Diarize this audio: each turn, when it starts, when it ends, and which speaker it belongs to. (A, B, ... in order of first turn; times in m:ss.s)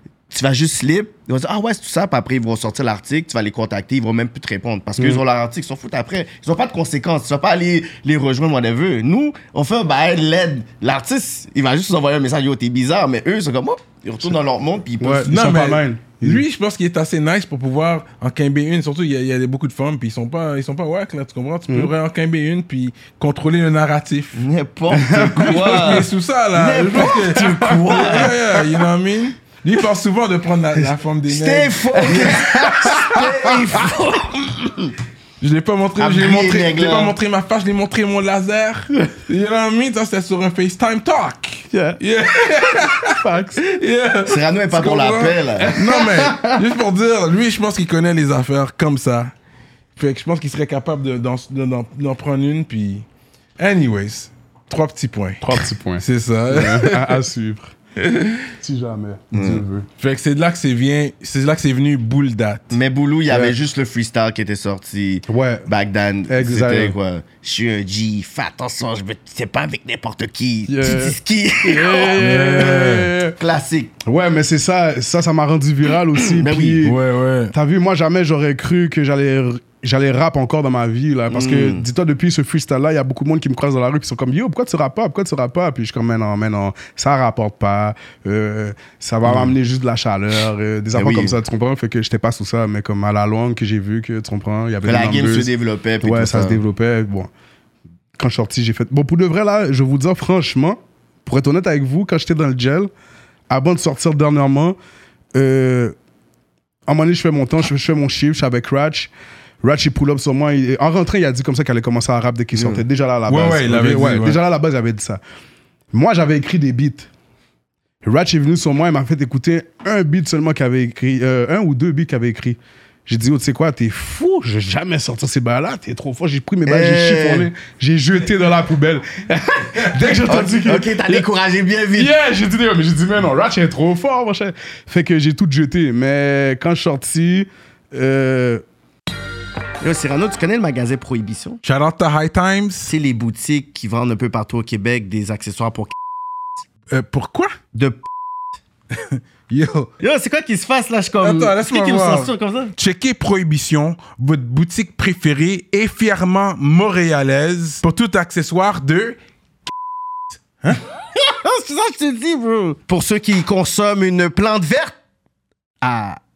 0:00.3-0:15.3 A
0:05.0-0:05.2 B
0:15.0-0:16.4 B
0:15.3-0:24.4 C
0:24.4-0:28.7 A
0:24.9-0:26.0 B
0:25.1-0:33.2 C
0:27.1-0:27.7 B
0:31.3-0:35.0 A
0:32.0-0:33.9 B
0:35.4-0:49.3 C
0:36.0-0:37.2 A
0:41.7-0:42.0 B
0:43.1-0:43.6 B
0:44.3-0:46.4 A
0:45.6-0:46.3 B
0:50.0-0:53.1 C
0:53.6-0:57.2 C
0:55.4-0:57.7 B
0:58.1-0:58.4 C
0:58.6-0:59.9 B
0:59.3-0:59.6 A
1:00.0-1:02.8 C
1:02.7-1:12.8 A
1:03.3-1:03.6 B
1:05.3-1:05.7 B
1:06.3-1:07.0 B
1:10.7-1:13.4 B
1:12.2-1:13.1 C
1:13.4-1:14.0 A
1:14.0-1:17.0 B
1:16.2-1:16.8 A
1:16.8-1:17.5 C
1:17.5-1:35.5 B
1:21.3-1:21.9 A
1:29.3-1:29.5 A
1:31.0-1:31.4 A
1:34.8-1:36.6 A
1:36.0-1:37.3 B
1:38.2-1:42.9 B
1:43.5-1:44.8 B
1:45.4-1:46.0 B
1:46.9-1:49.1 B
1:49.6-1:55.2 B
1:52.6-1:52.8 A
1:53.3-1:54.4 C
1:55.9-1:57.1 B
1:58.0-2:11.3 B
2:06.7-2:07.5 A
2:10.2-2:12.1 A
2:12.0-2:18.6 B
2:19.8-2:21.6 A
2:21.6-2:22.9 C
2:22.9-2:25.9 A
2:26.9-2:27.5 C
2:27.7-2:28.0 A
2:29.0-2:29.9 C
2:30.0-2:32.7 A
2:31.2-2:39.2 C
2:41.2-2:44.9 A
2:45.8-2:46.2 A